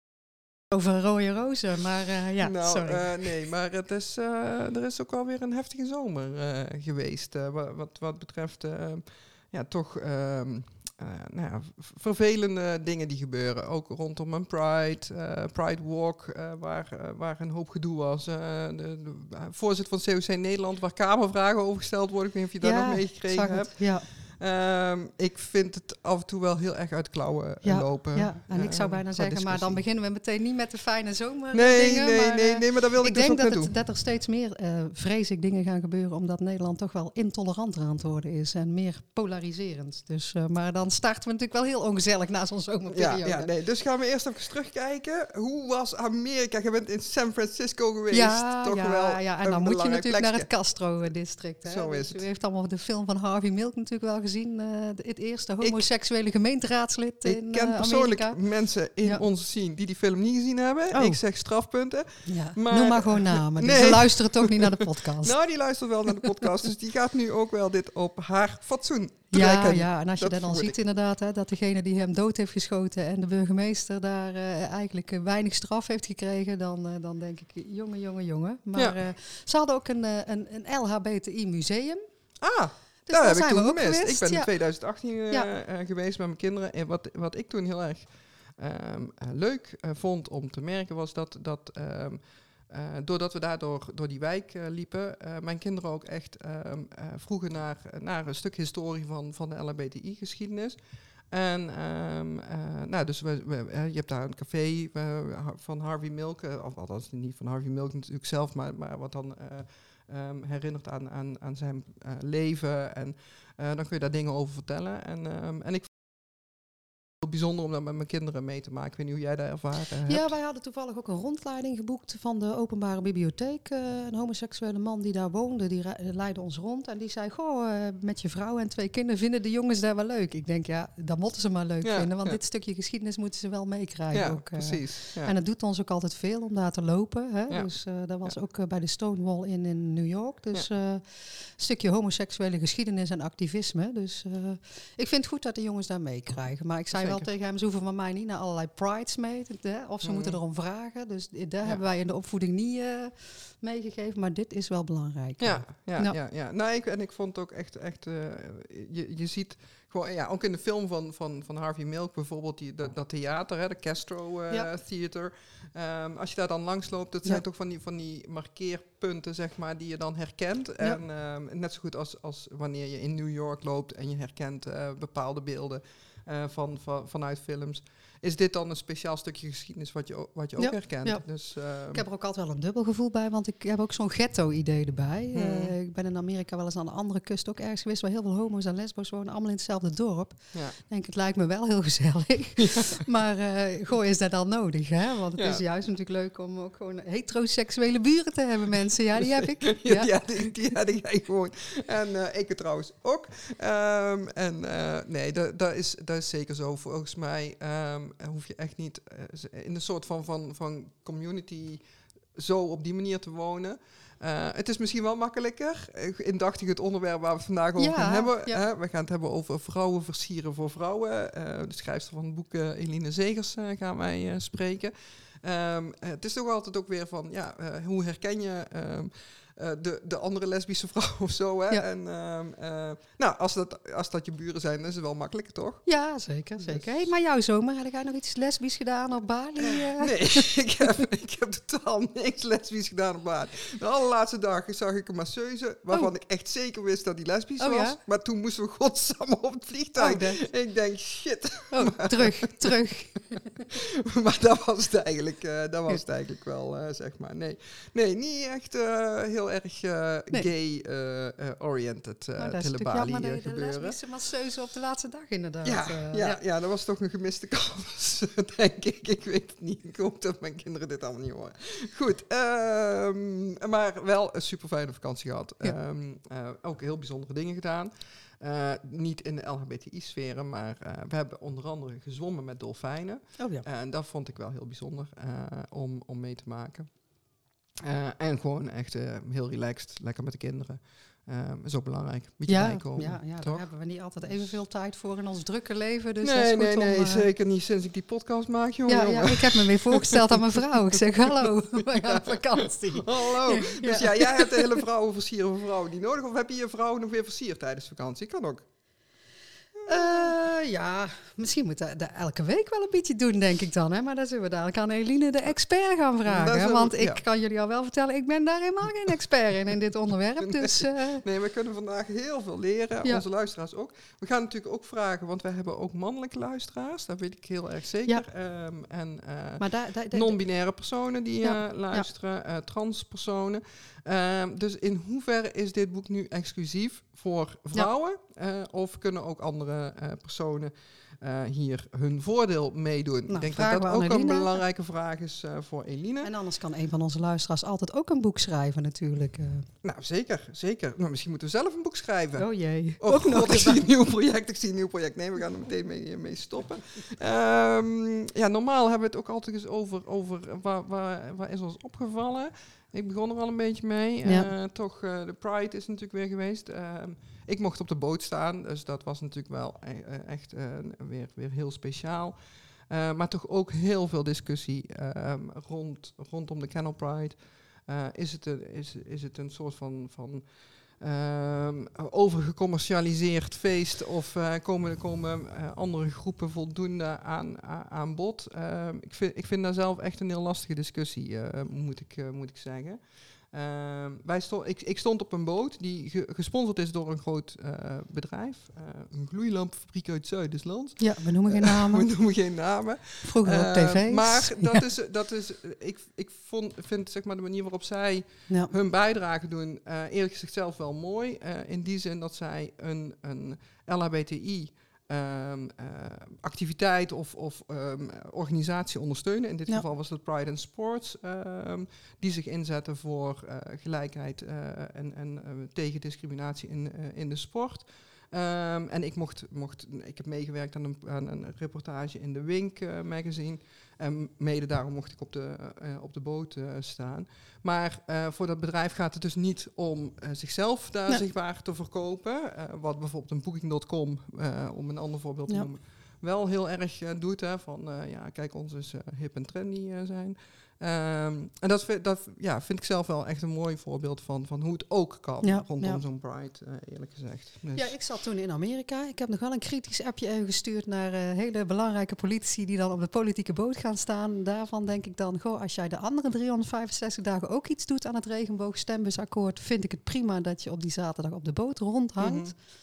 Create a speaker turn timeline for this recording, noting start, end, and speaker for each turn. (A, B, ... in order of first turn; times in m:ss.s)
0:00.7-0:03.3 A
0:02.4-0:29.8 B
0:22.6-0:24.1 A
0:27.6-0:43.5 A
0:31.5-0:33.7 B
0:42.9-0:50.5 B
0:48.1-0:58.4 A
0:51.6-0:52.2 B
0:57.2-1:10.8 B
1:00.9-1:01.2 A
1:02.3-1:05.3 A
1:09.3-1:22.0 A
1:22.4-1:40.8 B
1:23.1-1:24.5 A
1:41.3-1:55.9 B
1:57.2-2:00.3 B
2:00.1-2:36.2 A
2:11.8-2:12.4 B
2:14.1-2:15.3 B
2:26.9-2:27.3 B
2:30.0-2:30.4 B
2:35.4-3:02.0 B
3:00.6-3:01.3 A
3:01.9-3:20.2 A
3:05.3-3:05.8 B
3:12.6-3:13.0 B
3:15.4-3:15.6 B
3:19.2-3:31.8 B
3:32.4-3:55.8 B
3:37.8-3:38.6 A
3:55.9-4:00.5 A
3:56.6-3:57.1 B
4:00.0-4:12.8 B
4:07.6-4:08.0 A
4:10.0-4:10.4 A
4:11.7-4:13.4 A
4:13.4-4:24.0 B
4:22.4-4:26.4 A
4:25.6-4:46.9 B
4:43.4-4:43.6 A
4:47.8-4:53.6 B
4:52.5-4:57.3 A
4:54.2-4:54.6 B
4:56.2-5:08.6 B
4:58.9-5:04.8 A
5:09.8-5:10.4 B
5:09.9-5:21.2 A
5:16.3-5:17.2 B
5:20.4-5:46.3 B
5:29.6-5:30.4 A
5:31.4-5:32.1 A
5:43.3-5:44.6 A
5:46.2-5:49.7 A
5:49.8-5:52.5 B
5:52.4-5:53.8 A
5:53.0-6:12.4 B
6:04.2-6:04.5 A
6:12.9-7:38.0 B
6:41.0-6:42.1 A
6:43.2-6:44.8 A
7:35.4-7:36.0 A
7:37.8-7:52.6 A
7:52.2-7:52.5 B